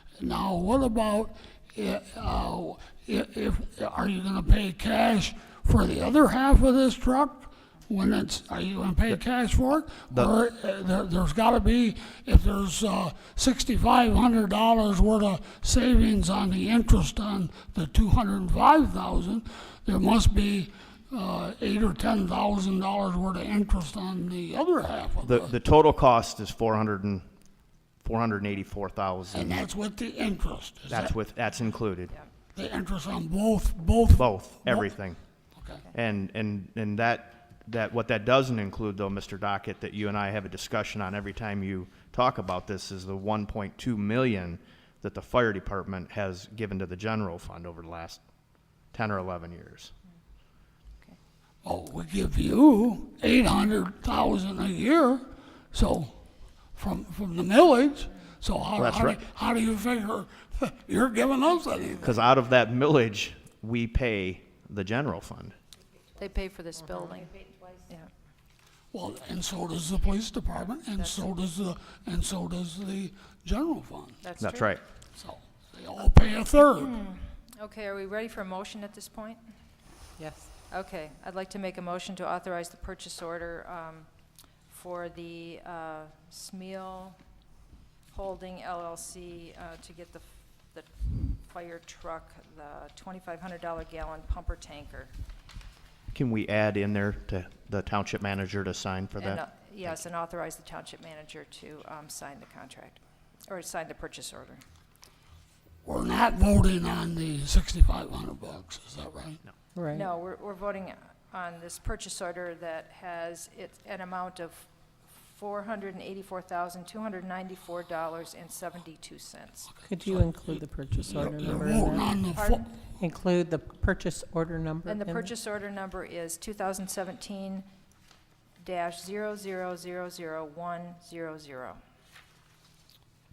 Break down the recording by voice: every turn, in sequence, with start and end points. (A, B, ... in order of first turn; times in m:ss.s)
0:00.2-0:25.5 A
0:09.9-0:10.3 B
0:25.2-0:27.2 B
0:28.0-0:29.6 B
0:29.3-0:31.1 A
0:30.9-0:32.1 B
0:32.5-0:34.9 A
0:34.1-0:35.2 B
0:35.6-0:35.8 A
0:35.9-0:48.2 B
0:48.9-0:49.9 B
0:51.6-0:56.2 A
0:56.7-1:02.1 A
0:58.8-0:59.2 B
1:02.0-1:05.5 B
1:06.2-1:08.1 C
1:08.9-1:14.2 A
1:11.0-1:11.3 C
1:14.2-1:14.7 C
1:14.4-1:14.8 B
1:15.1-1:16.9 A
1:16.8-1:19.4 C
1:20.2-1:20.5 D
1:20.7-1:24.1 C
1:24.7-1:27.2 C
1:28.1-1:35.1 C
1:36.1-1:40.0 B
1:39.2-1:44.6 C
1:45.8-1:49.4 A
1:49.7-1:50.1 D
1:49.9-1:59.7 C
1:59.8-2:02.1 D
2:00.0-2:02.7 A
2:02.3-2:02.7 C
2:03.0-2:05.3 D
2:04.8-2:07.6 C
2:08.6-2:11.8 C